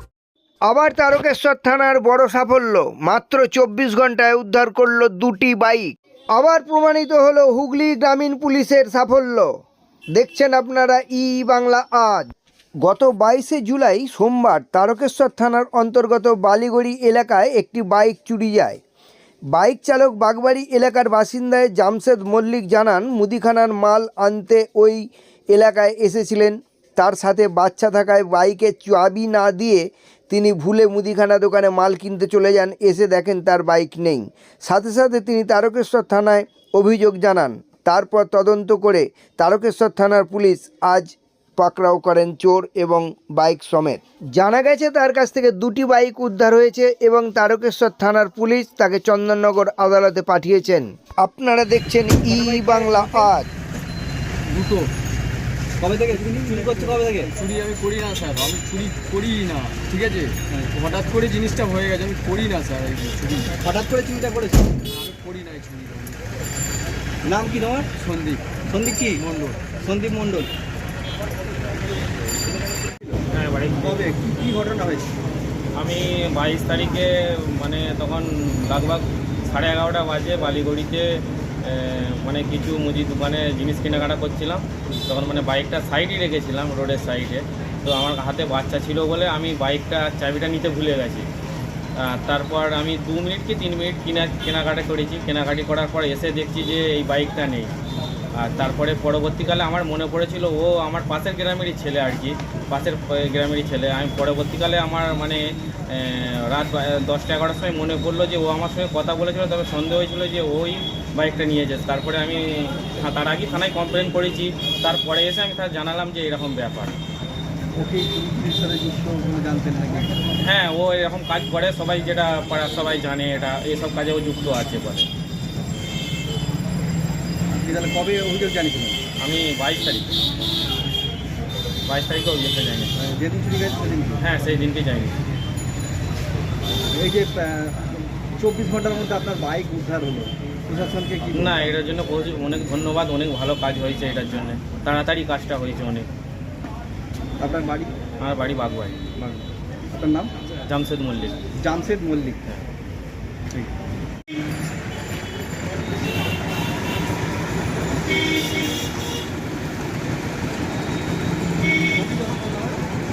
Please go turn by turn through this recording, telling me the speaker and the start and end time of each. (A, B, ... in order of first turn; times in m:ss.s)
0:00.7-0:09.5 A
0:10.2-0:12.3 A
0:12.8-0:18.8 A
0:19.5-0:53.5 A
0:52.3-0:53.3 B
0:54.5-0:54.9 C
0:55.8-0:57.3 B
0:56.4-1:03.5 C
1:03.6-1:04.8 B
1:04.9-1:06.2 C
1:07.2-1:07.9 B
1:08.0-1:08.6 C
1:08.7-1:09.2 B
1:09.2-1:09.7 C
1:09.8-1:10.5 B
1:12.8-1:13.2 B
1:13.3-1:14.0 D
1:13.8-1:15.1 B
1:15.8-1:21.0 D
1:21.6-1:31.3 D
1:32.0-1:37.7 D
1:38.4-1:57.0 D
1:57.8-2:00.2 B
2:00.4-2:05.1 D
2:07.6-2:09.0 B
2:09.2-2:10.2 D
2:11.9-2:12.9 D
2:13.0-2:14.2 B
2:14.2-2:15.1 D
2:16.9-2:21.6 B
2:21.3-2:26.1 D
2:27.4-2:28.0 B
2:28.2-2:29.0 D
2:29.2-2:30.3 B
2:30.7-2:31.4 D
2:31.6-2:32.4 B
2:41.9-2:42.8 B